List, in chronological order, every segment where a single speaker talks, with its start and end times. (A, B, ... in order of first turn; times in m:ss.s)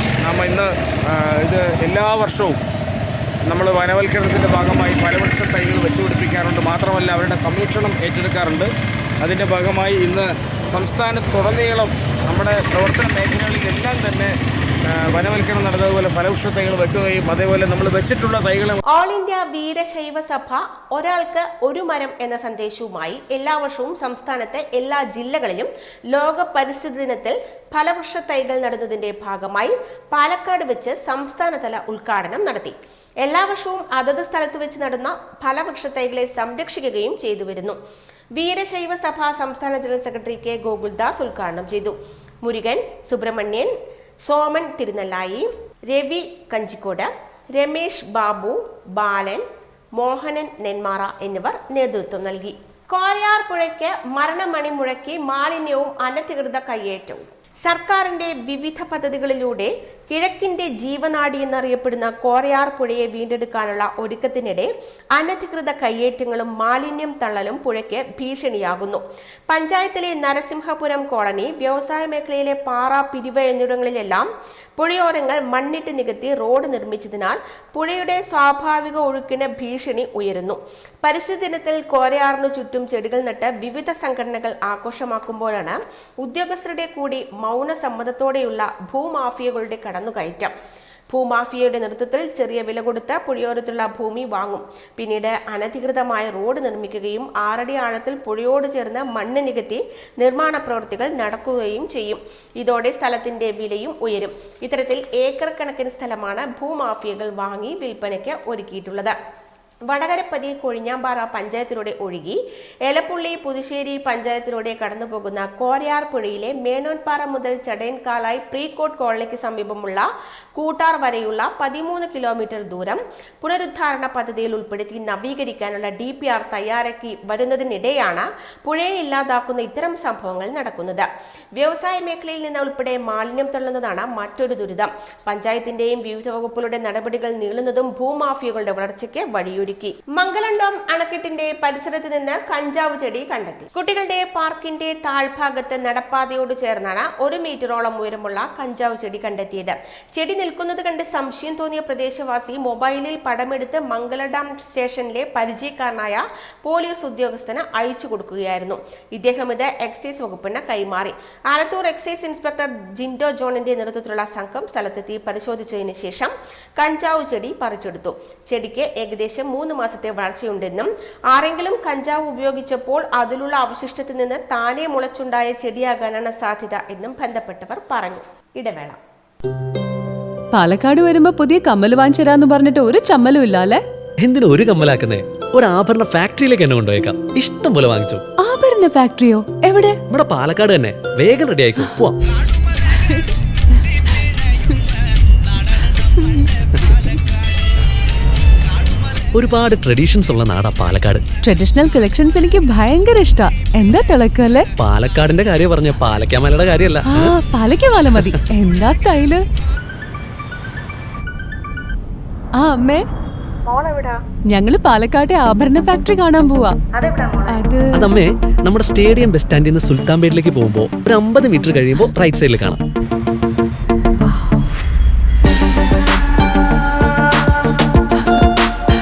0:00.2-0:02.6 A
0:03.5-0:08.7 A
0:09.2-0:14.3 A
0:14.9-0:18.8 A
0:18.9-0:37.8 B
0:38.4-0:43.7 B
0:44.2-0:49.4 B
0:50.0-1:30.5 B
1:31.1-1:49.2 B
1:49.9-2:59.0 B
3:00.5-3:03.8 C
3:04.2-3:08.2 D
3:08.4-3:10.0 C
3:10.1-3:12.2 D
3:19.3-3:21.3 D
3:21.4-3:24.7 C
3:24.8-3:27.3 D
3:27.1-3:29.4 C
3:32.6-3:33.0 C
3:33.7-3:34.2 B
3:34.5-3:36.8 C
3:37.0-3:37.5 B
3:37.5-3:37.9 C
3:37.9-3:42.8 D
3:44.2-3:44.6 C